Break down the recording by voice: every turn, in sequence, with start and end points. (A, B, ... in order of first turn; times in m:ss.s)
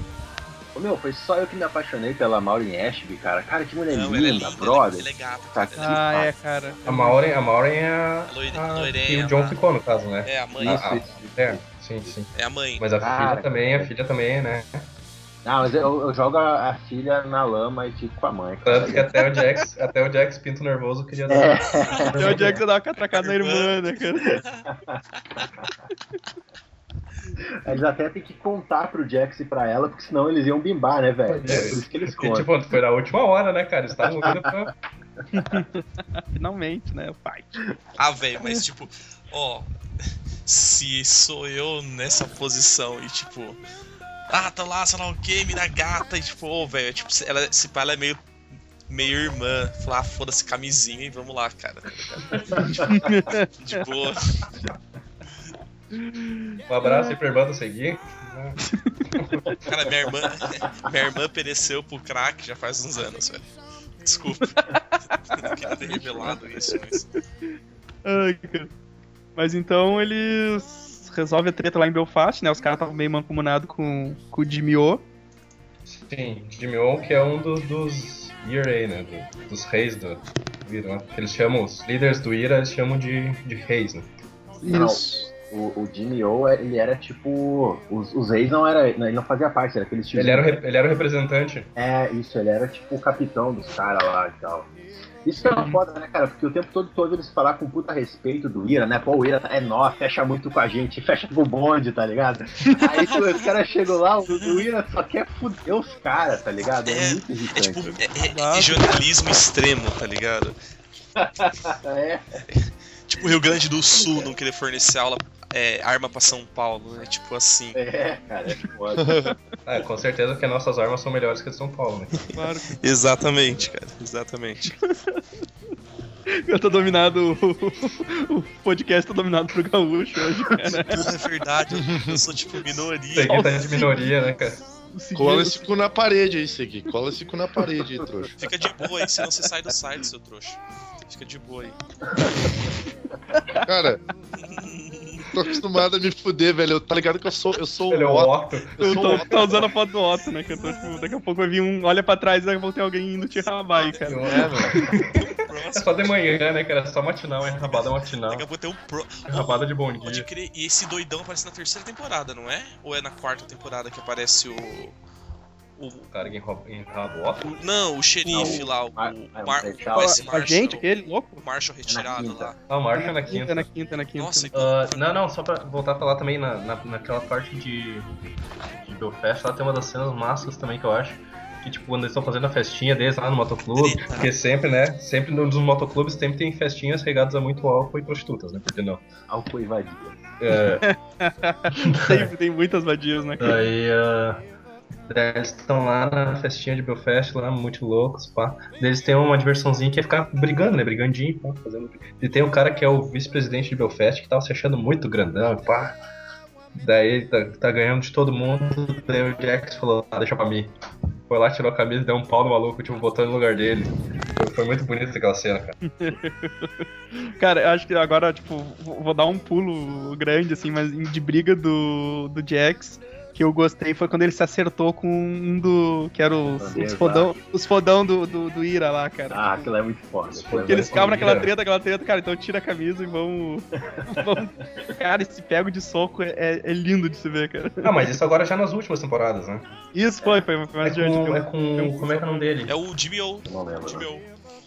0:00.8-0:06.3 A
0:03.9-0:06.0 B
0:05.8-0:07.2 C
0:06.8-0:14.9 D
0:08.3-0:09.6 B
0:10.2-0:11.2 B
0:10.6-0:12.1 A
0:12.3-0:12.8 B
0:13.0-0:13.9 A
0:15.4-0:19.1 A
0:18.6-0:22.6 D
0:21.3-0:22.6 A
0:22.2-0:24.4 C
0:23.1-0:24.7 B
0:24.3-0:25.7 A
0:27.4-0:32.5 A
0:31.3-0:34.7 D
0:34.0-0:34.4 A
0:35.3-0:37.6 C
0:38.0-0:43.6 B
0:44.3-0:48.2 B
0:48.9-0:53.0 B
0:52.6-0:53.8 C
0:53.6-0:54.5 B
0:55.9-0:57.1 C
0:56.7-0:58.6 D
0:58.6-0:59.2 C
0:59.1-0:59.5 D
0:59.7-1:03.5 B
1:04.0-1:04.7 B
1:04.4-1:07.2 C
1:05.3-1:07.1 B
1:08.0-1:08.7 C
1:09.4-1:15.0 C
1:15.9-1:24.1 D
1:24.6-1:25.3 C
1:24.6-1:30.6 A
1:30.2-1:31.7 D
1:31.8-1:34.7 A
1:35.2-1:47.9 A
1:35.6-1:35.8 C
1:42.6-1:43.1 C
1:44.3-1:44.6 B
1:46.9-1:50.6 B
1:47.8-1:49.0 C
1:51.2-1:52.4 A
1:52.5-1:57.8 B
1:53.9-1:54.3 A
1:57.8-1:59.1 A
1:59.0-1:59.3 E
1:59.7-2:02.4 D
2:02.3-2:02.8 C
2:02.8-2:04.8 B
2:04.7-2:05.2 C
2:06.5-2:11.1 C
2:10.7-2:13.6 B
2:11.7-2:12.2 E
2:13.1-2:14.6 D
2:13.3-2:14.1 C
2:14.9-2:15.7 C
2:15.2-2:18.5 E
2:18.4-2:21.8 B
2:22.1-2:22.5 A
2:23.3-2:23.6 C
2:23.6-2:24.0 E
2:24.4-2:25.3 B
2:25.3-2:29.7 E
2:27.9-2:29.3 D
2:28.8-2:34.8 C
2:34.1-2:38.5 D
2:34.3-2:34.8 E
2:35.1-2:36.2 B
2:37.6-2:45.0 B
2:39.3-2:40.3 D
2:45.8-2:46.3 B
2:46.1-2:47.6 D
2:47.4-2:52.6 B
2:48.3-2:50.2 A
2:49.9-2:51.4 C
2:51.9-2:52.5 A
2:52.7-2:53.7 D
2:52.9-2:54.5 C
2:54.2-2:55.1 B
2:54.5-2:58.1 D
2:58.8-3:09.0 D
3:03.8-3:04.3 B
3:09.3-3:10.2 A
3:10.4-3:10.8 D
3:10.6-3:13.6 C
3:11.9-3:12.3 D
3:13.4-3:14.4 D
3:15.1-3:26.0 D
3:26.8-3:30.7 D
3:31.3-3:35.8 D
3:35.8-3:49.7 C
3:46.4-3:47.3 A
3:49.3-3:51.3 A
3:50.3-3:51.5 D
3:50.7-3:58.1 C
3:53.9-3:54.3 A
3:57.8-3:59.7 D
3:59.9-4:02.6 C
4:00.2-4:00.5 A
4:00.8-4:02.8 D
4:02.7-4:04.3 B
4:03.5-4:04.1 A